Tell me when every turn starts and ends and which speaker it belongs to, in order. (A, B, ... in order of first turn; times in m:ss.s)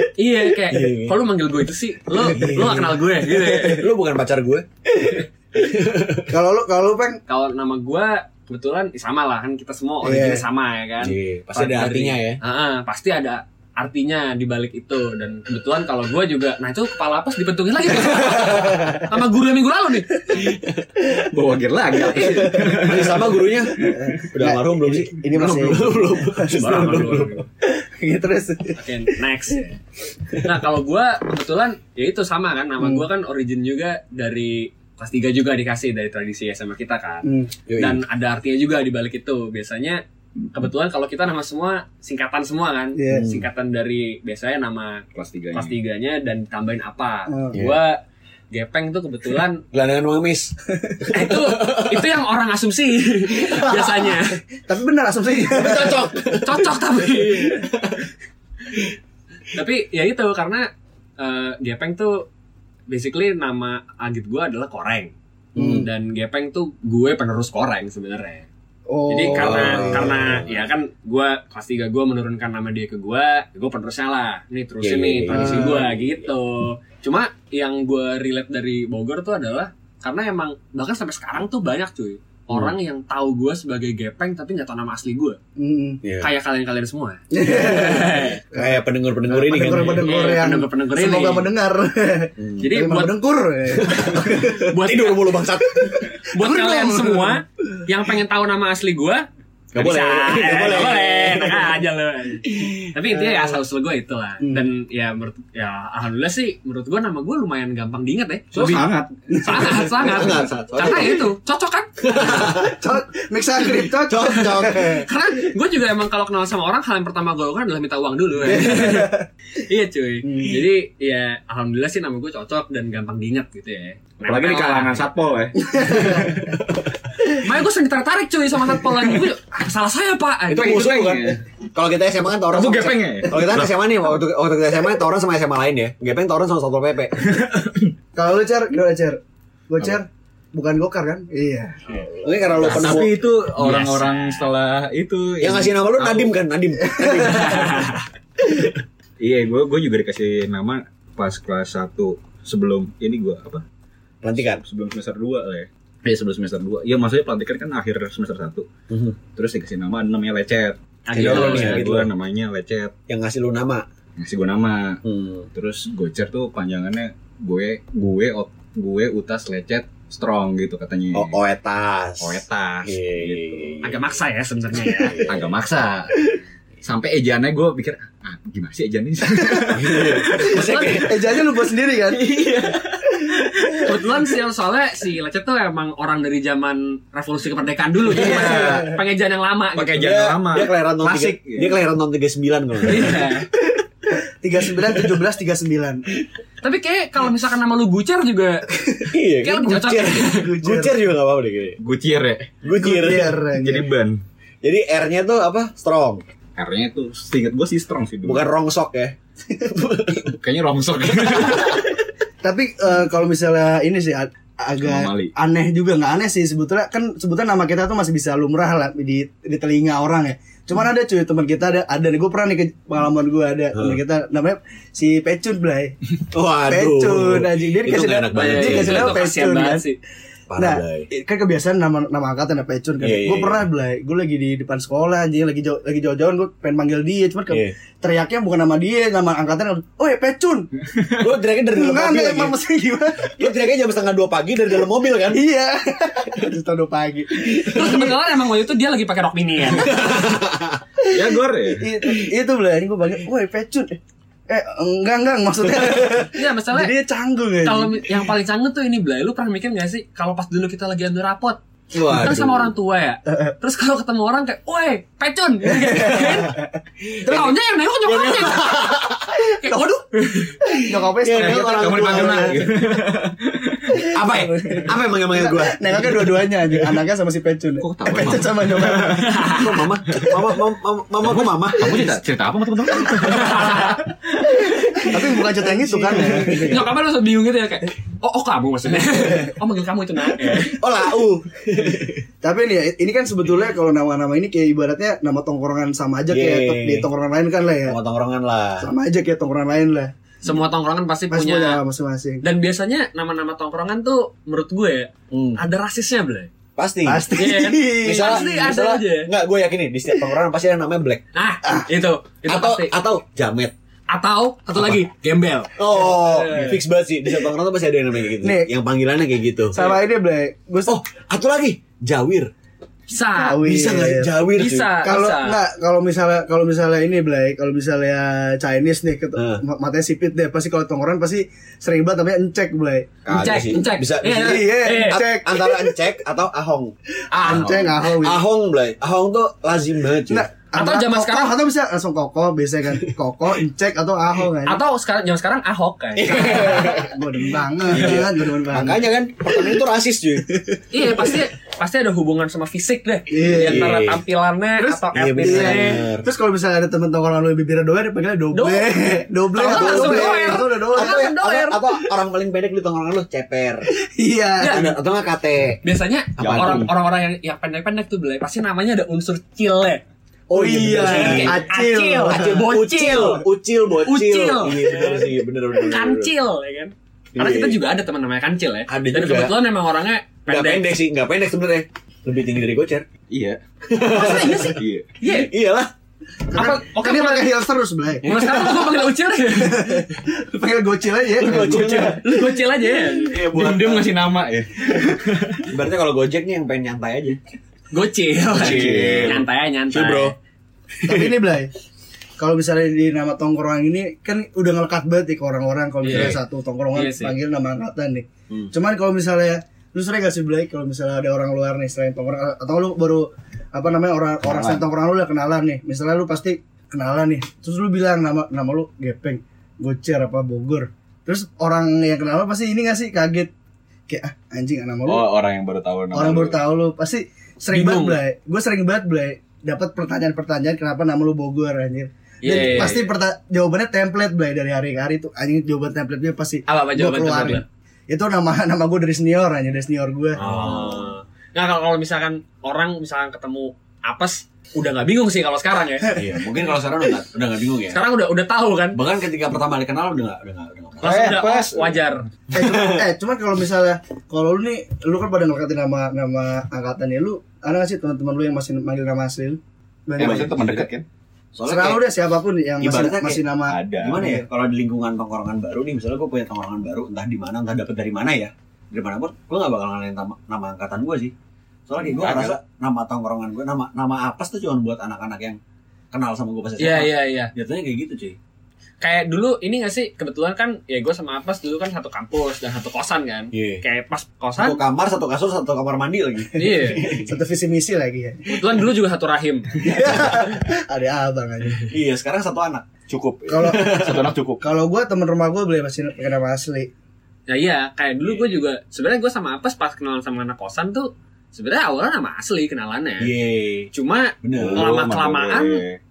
0:00.2-0:03.8 A
0:00.7-0:01.2 B
0:02.1-0:03.0 C
0:02.3-0:06.3 B
0:06.3-0:07.2 C
0:07.3-0:20.2 A
0:10.0-0:10.4 C
0:11.0-0:12.4 B
0:18.2-0:19.0 C
0:18.2-0:19.0 B
0:20.3-0:20.8 B
0:21.1-0:24.1 D
0:22.1-0:22.9 C
0:22.1-0:27.4 B
0:23.9-0:29.6 C
0:26.6-0:27.4 A
0:28.8-0:29.7 A
0:30.4-0:40.0 A
0:32.8-0:33.1 C
0:37.2-0:37.5 C
0:37.7-0:38.0 B
0:40.5-0:48.0 A
0:43.0-0:43.3 C
0:43.1-0:43.5 B
0:45.2-0:45.7 D
0:47.3-0:47.6 C
0:47.5-0:47.8 B
0:48.5-0:49.6 A
0:49.7-0:52.1 B
0:51.1-0:54.4 A
0:53.5-0:56.4 C
0:55.5-0:58.1 B
0:56.4-0:57.6 A
0:59.5-1:00.7 A
1:01.2-1:02.3 A
1:02.9-1:08.5 A
1:05.6-1:05.9 C
1:05.6-1:05.9 B
1:08.9-1:10.4 C
1:09.1-1:25.4 A
1:09.4-1:10.7 B
1:14.8-1:16.2 B
1:15.3-1:15.9 C
1:25.6-1:26.0 C
1:26.0-1:26.3 B
1:26.2-1:28.4 A
1:27.3-1:34.6 C
1:27.6-1:30.2 B
1:29.8-1:31.5 A
1:32.4-1:32.7 B
1:32.6-1:33.1 A
1:33.8-1:36.1 B
1:34.4-1:35.2 A
1:35.8-1:37.4 C
1:36.3-1:39.2 A
1:39.7-1:41.8 B
1:39.8-1:48.9 A
1:42.5-1:43.5 B
1:44.4-1:44.7 C
1:48.6-1:49.5 D
1:49.4-1:52.4 A
1:49.5-1:51.3 B
1:52.0-1:52.8 B
1:52.1-1:55.1 C
1:53.7-1:55.0 B
1:54.6-2:05.1 A
1:58.4-1:59.2 C
2:00.2-2:00.7 C
2:04.2-2:06.4 D
2:05.6-2:06.5 C
2:07.4-2:10.9 A
2:10.5-2:17.4 B
2:10.5-2:11.4 D
2:12.5-2:13.7 D
2:17.2-2:17.9 D
2:18.1-2:22.0 C
2:21.9-2:23.2 B
2:22.6-2:23.0 C
2:22.6-2:26.3 D
2:22.6-2:23.0 A
2:23.6-2:24.5 A
2:25.4-2:28.0 B
2:26.8-2:27.5 C
2:27.0-2:27.8 D
2:27.3-2:28.0 A
2:29.2-2:33.6 D
2:34.2-2:34.6 B
2:34.6-2:38.7 D
2:38.9-2:39.2 B
2:39.3-2:42.9 D
2:41.1-2:41.8 A
2:41.1-2:42.1 B
2:43.1-2:43.8 B
2:44.2-2:45.0 D
2:45.0-2:45.5 B
2:45.5-2:51.4 D
2:51.1-2:54.0 B
2:52.2-2:53.9 D
2:53.8-2:55.2 A
2:54.8-2:55.5 B
2:55.3-2:56.3 D
2:56.8-3:00.6 D
2:59.3-2:59.7 C
2:59.7-3:01.2 B
3:00.6-3:01.0 A
3:01.0-3:02.3 C
3:02.1-3:03.9 D
3:03.8-3:10.1 A
3:08.1-3:09.0 D
3:08.1-3:09.0 C
3:09.8-3:11.8 D
3:09.9-3:13.3 B
3:12.9-3:13.5 A
3:14.1-3:16.0 C
3:16.6-3:18.7 A
3:19.1-3:21.8 B
3:19.4-3:20.4 A
3:20.3-3:21.0 C
3:21.8-3:22.6 D
3:22.6-3:23.4 B
3:22.7-3:23.9 C
3:23.5-3:24.2 D
3:24.6-3:26.2 B
3:26.6-3:28.5 D
3:28.2-3:30.4 B
3:30.2-3:32.0 D
3:31.1-3:31.8 B
3:32.4-3:45.9 C
3:34.8-3:35.3 D
3:43.8-3:44.0 B
3:46.3-3:49.2 B
3:46.7-3:49.8 C
3:48.3-3:50.0 A
3:50.5-3:51.1 B
3:50.6-4:00.7 C
3:53.0-3:53.6 B
4:01.2-4:02.6 B
4:01.7-4:03.6 C
4:03.4-4:05.4 B
4:05.3-4:08.1 C
4:07.6-4:08.1 B
4:07.7-4:10.2 A
4:09.8-4:10.8 B
4:11.0-4:18.3 C
4:11.1-4:11.9 D
4:16.3-4:16.9 A
4:17.6-4:26.6 A
4:21.9-4:22.7 B
4:25.7-4:26.7 C
4:27.1-4:27.5 B
4:27.2-4:28.9 A
4:28.0-4:29.4 B
4:29.5-4:30.0 C
4:29.6-4:30.5 A
4:30.4-4:32.6 B
4:30.7-4:32.7 C
4:31.4-4:34.1 D
4:33.9-4:39.5 C
4:34.1-4:36.5 B
4:37.8-4:39.3 D
4:38.2-4:38.4 B
4:39.2-4:39.6 A
4:39.5-4:42.1 B
4:41.2-4:45.1 D
4:41.8-4:42.1 C
4:43.2-4:44.0 A
4:45.1-4:46.9 C
4:45.4-4:46.8 B
4:46.6-4:50.7 A
4:49.1-4:49.5 C
4:50.5-4:51.9 C
4:51.1-4:52.2 B
4:52.4-4:58.0 C
4:56.3-4:57.1 B
4:57.9-4:58.9 B
4:58.8-5:00.1 C
5:00.4-5:01.8 A
5:01.3-5:02.4 C
5:02.4-5:06.5 A
5:05.3-5:05.6 B
5:06.8-5:07.3 B
5:07.0-5:08.8 C
5:07.3-5:09.3 A
5:08.0-5:11.2 B
5:11.3-5:12.9 A
5:12.4-5:13.7 B
5:14.1-5:16.8 A
5:15.8-5:19.9 B
5:18.4-5:18.7 C
5:19.7-5:21.0 C
5:20.9-5:22.5 B
5:23.1-5:23.6 A
5:23.4-5:24.3 C
5:23.5-5:25.0 B
5:24.6-5:25.6 A
5:25.0-5:33.2 C
5:29.4-5:29.6 B
5:33.2-5:36.9 B
5:33.3-5:35.2 A
5:34.2-5:35.9 C
5:37.3-5:38.4 C
5:37.3-5:37.8 A
5:37.5-5:40.5 B
5:40.3-5:44.8 C
5:40.8-5:41.5 A
5:44.6-5:47.0 A
5:46.2-5:47.2 B
5:46.3-5:49.8 C
5:47.9-5:51.3 B
5:50.9-5:56.0 A
5:53.3-5:54.0 C
5:53.5-5:54.2 B
5:54.8-6:01.3 C
5:55.1-5:56.3 B
5:58.5-5:58.9 A
5:59.6-6:01.8 A
5:59.6-6:03.9 B
6:04.2-6:04.9 C
6:04.6-6:04.8 A
6:04.7-6:05.8 B
6:05.8-6:10.0 A
6:06.4-6:06.9 B
6:06.4-6:06.9 D
6:10.5-6:11.6 B
6:10.5-6:13.3 C
6:10.9-6:13.4 A
6:12.3-6:16.3 B
6:14.0-6:20.9 A
6:17.3-6:17.8 B
6:18.9-6:19.6 B
6:20.5-6:23.1 B
6:23.3-6:23.6 D
6:23.9-6:24.7 B
6:24.1-6:25.5 A
6:24.2-6:25.1 D
6:25.3-6:25.9 B
6:26.5-6:28.3 C
6:26.5-6:27.5 A
6:28.2-6:29.1 B
6:28.2-6:30.0 A
6:29.6-6:32.2 C
6:31.4-6:32.4 B
6:31.7-6:33.4 A
6:33.1-6:34.2 B
6:33.5-6:35.7 D
6:35.7-6:37.4 B
6:37.9-6:40.3 A
6:38.5-6:40.3 B
6:38.6-6:39.4 D
6:41.0-6:41.4 B
6:41.0-6:41.7 C
6:42.4-7:03.5 C
6:46.0-6:46.4 A
6:46.1-6:46.4 B
6:46.9-6:47.3 A
6:54.4-6:54.8 D
7:04.1-7:05.2 C
7:05.1-7:06.6 D
7:06.1-7:20.4 C
7:07.7-7:08.2 A
7:12.4-7:13.1 A
7:16.7-7:17.6 A
7:20.4-7:26.2 A
7:20.4-7:21.1 B
7:26.1-7:28.0 B
7:27.9-7:29.0 A
7:28.9-7:31.2 B
7:31.0-7:32.2 A
7:31.0-7:32.0 D
7:32.5-7:40.9 C
7:32.6-7:33.0 B
7:40.2-7:41.0 D
7:41.6-7:42.0 B
7:41.7-7:44.4 C
7:42.8-7:43.4 B
7:43.7-7:44.3 D
7:44.0-7:51.3 B
7:51.9-7:55.6 B
7:52.1-7:52.6 D
7:56.1-7:58.4 B
7:56.8-7:57.5 A
7:59.0-8:04.8 A
8:03.5-8:03.8 B
8:04.6-8:07.3 B
8:06.6-8:07.1 A
8:07.2-8:08.5 C
8:08.5-8:10.3 A
8:09.8-8:11.9 C
8:11.8-8:12.8 B
8:13.1-8:14.6 D
8:13.5-8:14.0 C
8:13.6-8:14.3 B
8:14.6-8:16.9 C
8:17.5-8:23.3 A
8:23.2-8:23.9 B
8:23.9-8:25.8 A
8:24.4-8:24.9 B
8:24.6-8:26.0 D